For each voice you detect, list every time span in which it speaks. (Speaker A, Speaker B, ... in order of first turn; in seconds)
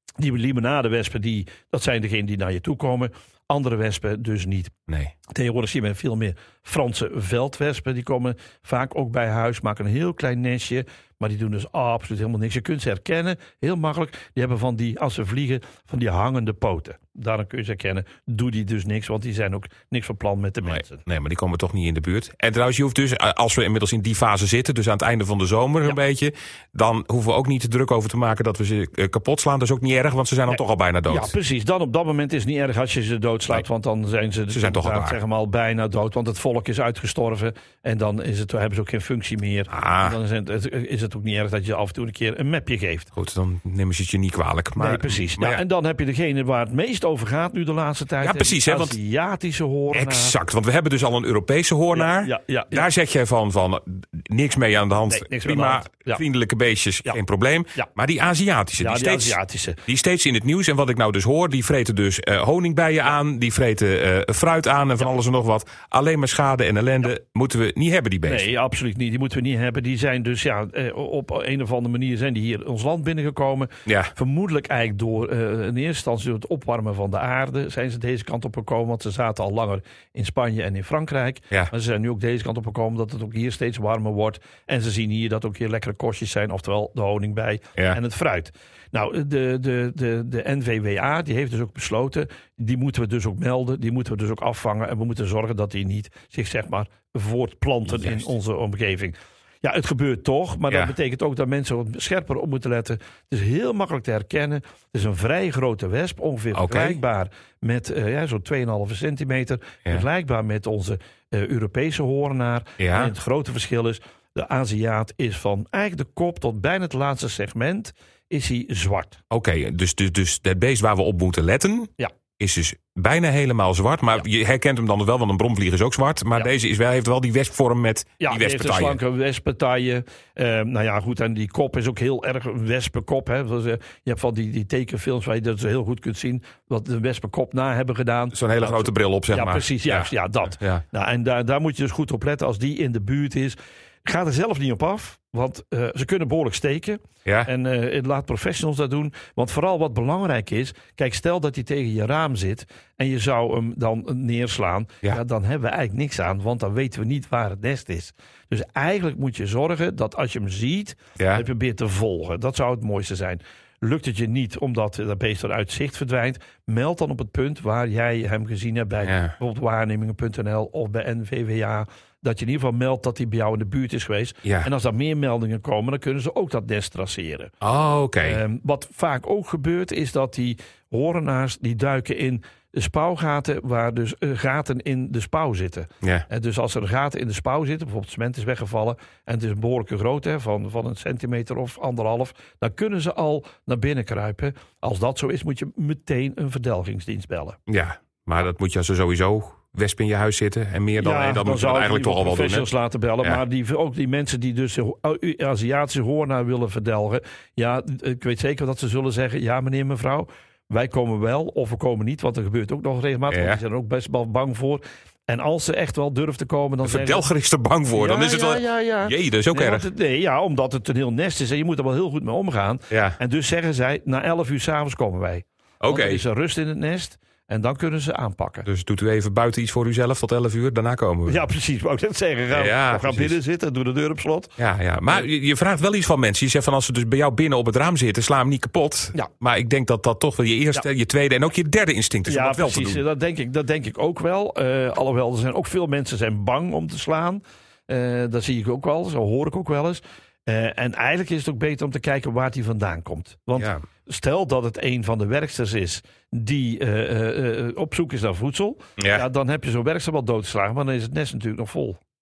Speaker A: 0.2-4.8, 5.3-21.0, 30.5-43.1, 44.8-50.4, 52.0-52.9, 55.1-56.2, 58.8-59.8, 68.3-119.2, 128.2-177.5, 178.2-197.6, 201.0-217.3, 217.9-228.7, 231.3-234.5, 242.3-262.0
Speaker B: 4.9-5.1, 20.6-31.3, 34.5-35.2, 39.7-40.2, 43.2-45.6, 48.2-49.0, 49.9-68.5, 73.9-74.1, 97.9-98.3, 100.7-100.9, 106.5-107.0, 112.8-113.1, 119.3-129.0, 138.3-140.8, 161.2-161.4, 169.1-169.3, 174.4-174.7, 177.6-178.4, 197.7-202.7, 213.3-213.6, 216.8-219.9, 222.9-223.2, 225.8-226.2, 228.7-231.4, 232.5-233.4, 234.6-243.0, 253.6-253.8, 259.0-259.2